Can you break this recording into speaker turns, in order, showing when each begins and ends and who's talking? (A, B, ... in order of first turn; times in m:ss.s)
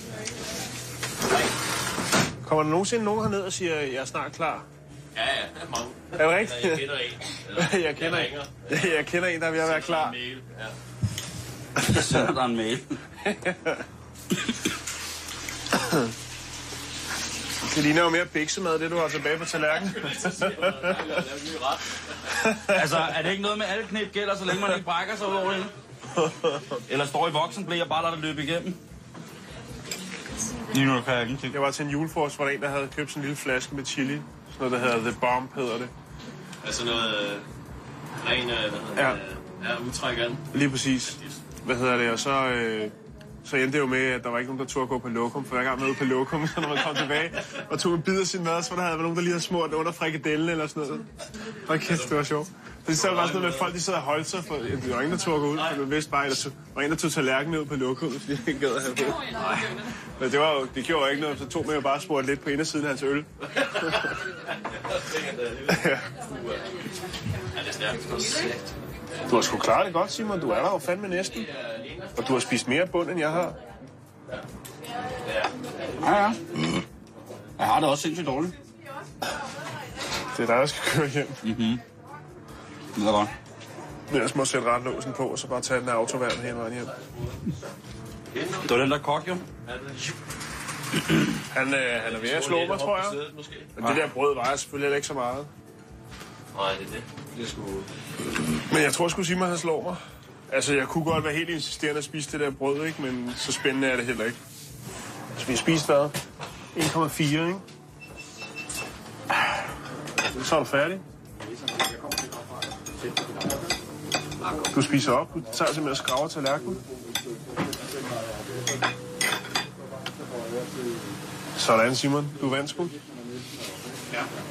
0:01.2-0:01.5 A
0:02.4-0:04.7 B
0:05.2-0:09.0 A
0:06.2-0:07.0 B
0:07.5-0:10.2 B
0:09.6-0:10.8 A
0:11.8-0:13.0 C
0:13.2-0:13.8 B
0:17.6-0:20.8 B
0:19.6-0:22.5 A
0:22.4-0:22.8 B
0:22.7-0:25.7 C
0:26.8-0:28.8 C
0:30.7-0:31.6 C
0:31.5-0:35.9 B
0:36.6-0:37.5 A
0:38.2-0:40.5 A
0:39.0-0:39.2 B
0:40.5-0:51.1 B
0:41.1-0:41.4 A
0:51.6-0:59.4 B
0:51.8-0:52.1 A
0:52.9-0:53.8 A
0:59.4-0:59.8 A
1:00.2-1:03.3 B
1:03.5-1:06.8 A
1:05.7-1:06.1 B
1:07.5-1:08.8 A
1:09.3-1:11.5 B
1:11.3-1:12.2 A
1:12.2-1:13.6 B
1:15.2-1:16.1 A
1:16.0-1:16.8 C
1:17.6-1:18.6 C
1:20.3-1:21.4 B
1:21.4-1:21.8 C
1:23.0-1:23.3 C
1:24.1-1:26.9 B
1:26.9-1:27.4 A
1:28.3-1:28.8 A
1:28.6-1:29.5 C
1:29.6-1:30.2 A
1:31.5-1:33.2 B
1:31.9-1:33.7 A
1:33.8-1:35.5 B
1:33.8-1:34.1 C
1:36.5-1:37.8 A
1:38.7-1:44.4 B
1:45.4-1:46.2 B
1:46.8-1:47.6 B
1:50.3-1:51.0 B
1:54.7-1:56.8 B
2:01.6-2:03.0 B